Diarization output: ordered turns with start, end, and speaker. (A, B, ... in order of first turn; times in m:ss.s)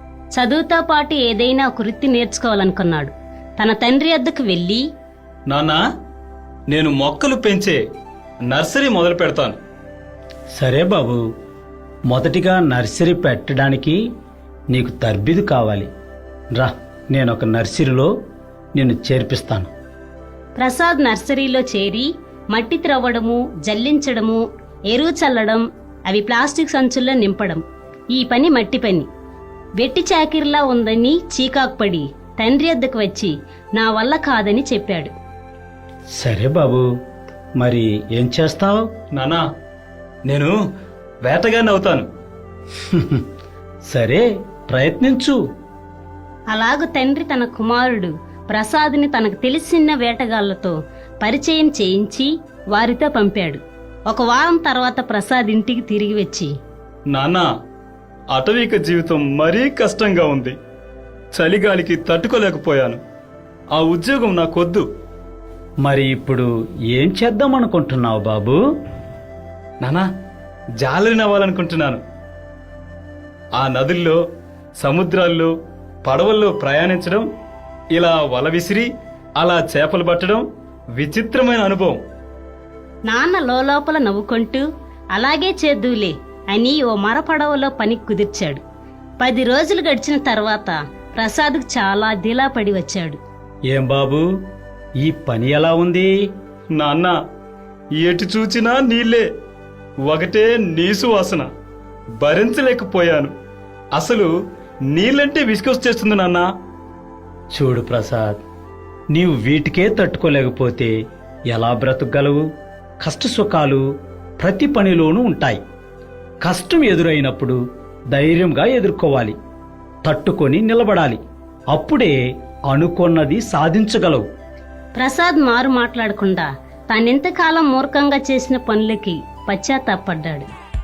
0:00.4-0:04.8 A
0:05.5-0:05.8 B
0:06.7-0:07.8 B
0:08.5-0:09.6 B
0:10.6-0:11.2 C
0:12.1-0:14.0 C
0:14.7-0:15.9 C
0:16.5-0:18.1 C
0:18.8-0:19.7 C
0:20.6-0:27.6 A
0:28.1-0:29.1 A
0:29.8-0:35.1 A
0:36.2-0:36.9 C
0:37.6-0:38.9 C
0:39.2-0:39.4 B
0:40.3-0:40.6 B
0:41.2-0:42.1 B
0:42.9-0:43.2 C
0:43.9-0:45.4 C
0:46.5-0:56.5 A
0:57.1-0:57.5 B
0:58.3-1:00.6 B
1:01.3-1:03.0 B
1:03.7-1:04.9 B
1:05.8-1:08.6 C
1:10.8-1:12.0 B
1:13.6-1:14.2 B
1:14.8-1:15.5 B
1:16.0-1:17.2 B
1:18.0-1:20.4 B
1:21.0-1:22.0 B
1:23.1-1:28.6 A
1:29.2-1:33.2 A
1:33.7-1:34.3 C
1:35.0-1:36.1 C
1:36.8-1:37.2 B
1:38.0-1:39.3 B
1:40.1-1:41.5 B
1:42.2-1:43.3 B
1:44.0-1:44.3 B
1:44.9-1:46.5 B
1:47.5-1:48.4 C
1:49.1-1:50.9 C
1:51.5-1:52.5 C
1:53.0-1:53.8 C
1:54.4-1:55.6 C
1:56.4-1:57.6 C
1:58.1-1:59.4 C
2:00.0-2:01.2 C
2:01.7-2:02.2 C
2:02.7-2:04.2 C
2:05.0-2:10.5 A